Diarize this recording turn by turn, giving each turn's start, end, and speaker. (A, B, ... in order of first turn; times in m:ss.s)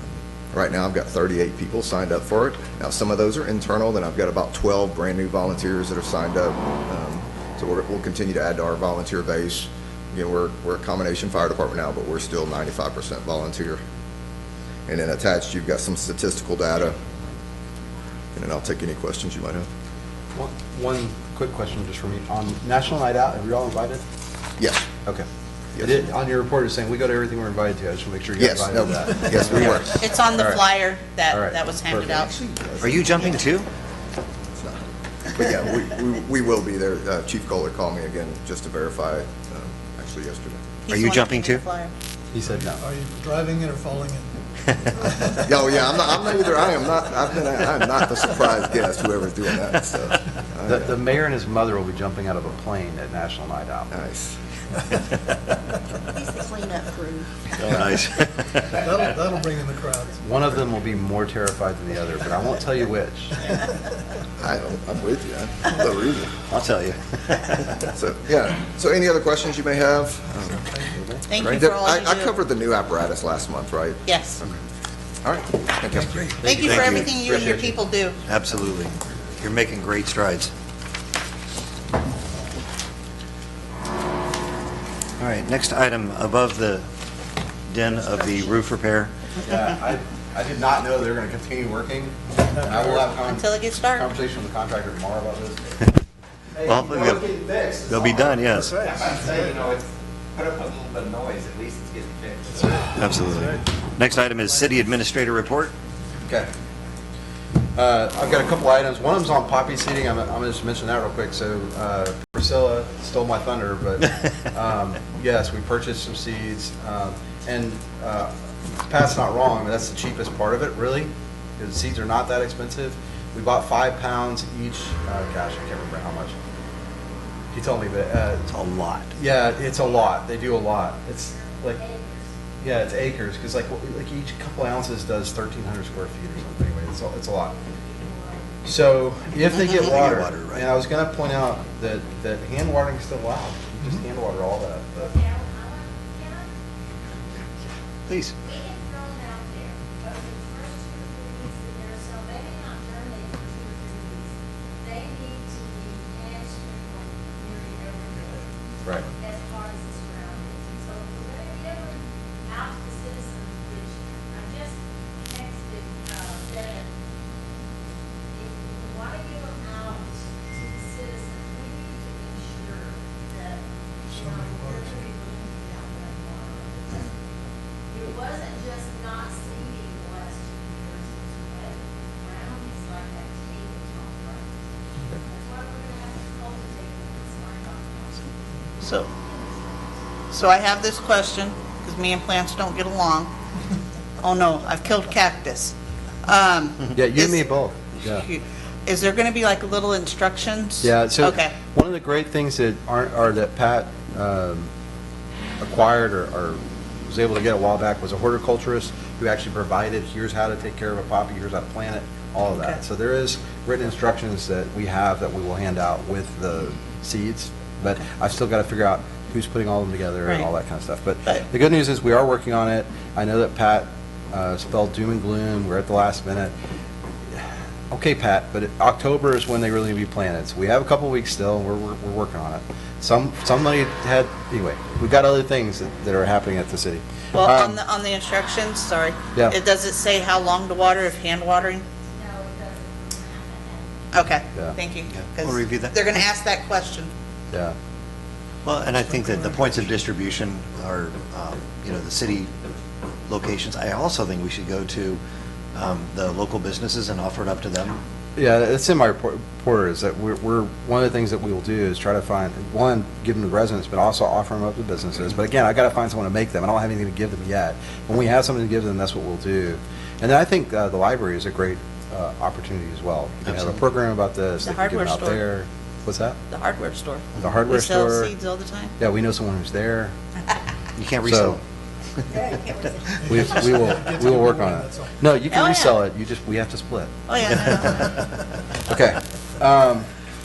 0:00.5-0:13.8 A
0:14.9-0:17.0 A
0:18.3-0:19.7 A
0:20.3-0:24.0 B
0:24.6-0:24.9 A
0:25.7-0:26.1 A
0:25.8-0:30.6 B
0:28.4-0:30.0 A
0:30.0-0:32.3 C
0:31.3-0:32.4 B
0:32.1-0:33.4 A
0:32.8-0:33.7 D
0:34.5-0:34.8 A
0:35.3-0:40.7 A
0:40.8-0:41.9 C
0:40.9-0:41.6 D
0:42.3-0:42.8 B
0:42.4-0:44.3 E
0:45.0-0:45.5 E
0:45.4-0:51.0 A
0:50.7-0:53.9 B
0:53.9-0:54.4 A
0:56.2-0:57.3 F
0:57.5-0:58.0 A
0:57.7-0:58.7 D
0:58.7-1:00.3 E
1:00.2-1:03.4 B
1:04.4-1:06.4 A
1:06.5-1:07.8 D
1:07.9-1:10.8 A
1:11.0-1:11.2 B
1:11.3-1:12.3 C
1:11.3-1:14.0 A
1:14.0-1:14.4 C
1:15.2-1:16.5 A
1:16.4-1:17.7 B
1:16.4-1:18.2 C
1:16.7-1:17.4 D
1:18.3-1:20.5 D
1:25.2-1:26.8 D
1:27.7-1:29.1 D
1:29.4-1:35.6 B
1:33.1-1:34.1 C
1:36.5-1:43.3 G
1:36.6-1:37.2 D
1:37.9-1:38.8 D
1:38.7-1:39.0 E
1:43.0-1:45.7 D
1:47.7-1:58.3 B
1:58.9-2:06.4 B
2:07.5-2:08.4 B
2:08.5-2:09.1 D
2:09.1-2:11.8 B
2:09.6-2:10.2 F
2:11.2-2:12.3 F
2:12.6-2:17.5 B
2:17.5-2:18.7 F
2:18.6-2:25.2 B
2:19.7-2:20.6 D
2:25.0-2:26.5 F
2:28.1-2:28.3 D
2:28.4-2:38.5 F
2:39.1-2:46.9 F
2:48.3-2:57.3 F
2:54.1-2:55.0 E
2:57.9-3:04.6 F
3:05.2-3:10.0 F
3:08.8-3:09.1 C
3:10.3-3:13.3 C
3:14.2-3:17.5 C
3:16.9-3:18.3 B
3:18.0-3:21.6 C
3:20.8-3:24.7 B
3:25.6-3:46.5 B
3:32.5-3:32.8 C
3:47.9-3:57.8 B
3:57.3-4:01.8 C
4:02.1-4:04.0 F
4:04.1-4:07.1 C
4:05.2-4:05.9 D
4:07.5-4:07.7 B
4:08.6-4:12.5 D
4:13.3-4:15.2 D
4:15.7-4:18.0 D
4:18.4-4:36.4 B
4:34.6-4:35.4 C
4:36.5-4:38.9 C
4:37.4-4:38.3 B
4:39.0-4:40.1 B
4:41.0-4:41.6 D
4:41.2-4:41.6 B
4:42.3-4:43.2 F
4:43.2-4:45.1 E
4:43.2-4:48.2 B
4:45.5-4:46.0 C
4:47.3-4:48.2 C
4:48.8-4:50.1 B